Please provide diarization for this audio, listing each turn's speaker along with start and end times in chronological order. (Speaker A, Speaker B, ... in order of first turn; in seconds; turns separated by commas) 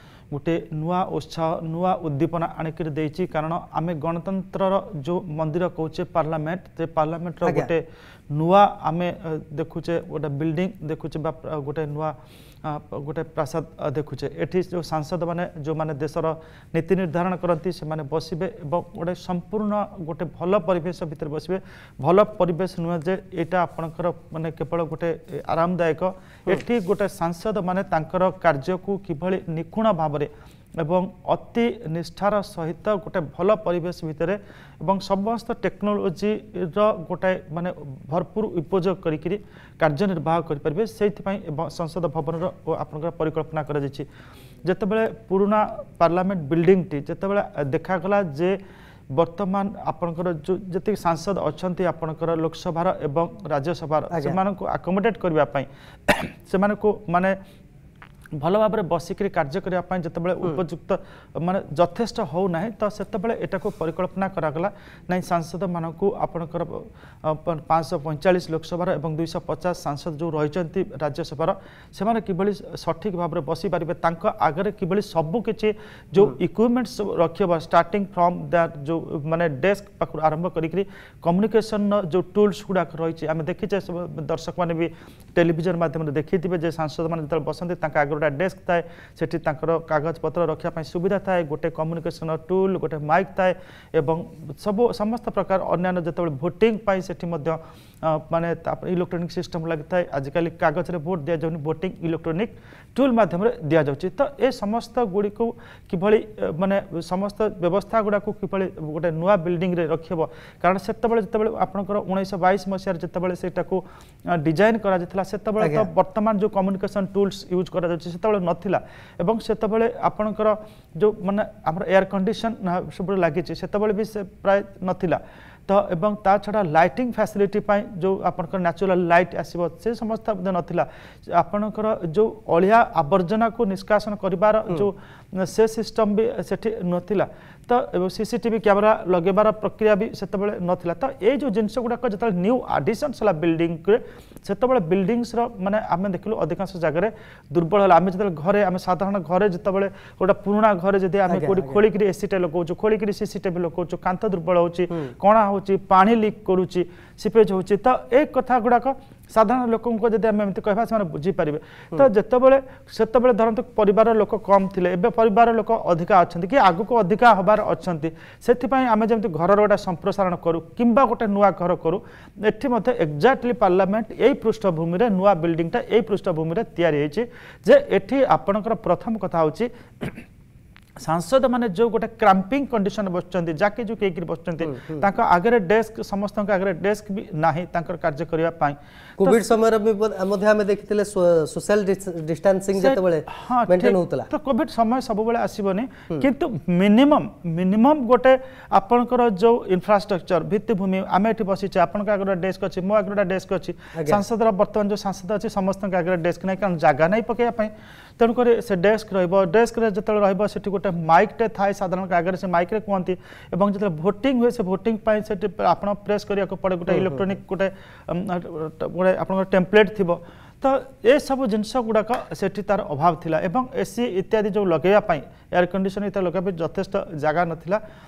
Speaker A: 0.3-7.8, Speaker B: 7.4-7.7, Speaker A: 8.3-30.3, Speaker A: 30.8-44.0, Speaker A: 44.6-48.6, Speaker A: 49.1-57.3, Speaker B: 54.1-54.4, Speaker A: 58.4-180.2, Speaker B: 115.6-115.9, Speaker B: 151.3-151.8, Speaker A: 181.0-189.4, Speaker B: 184.7-185.0, Speaker B: 189.2-194.3, Speaker A: 192.7-227.8, Speaker B: 203.9-204.2, Speaker B: 216.9-217.2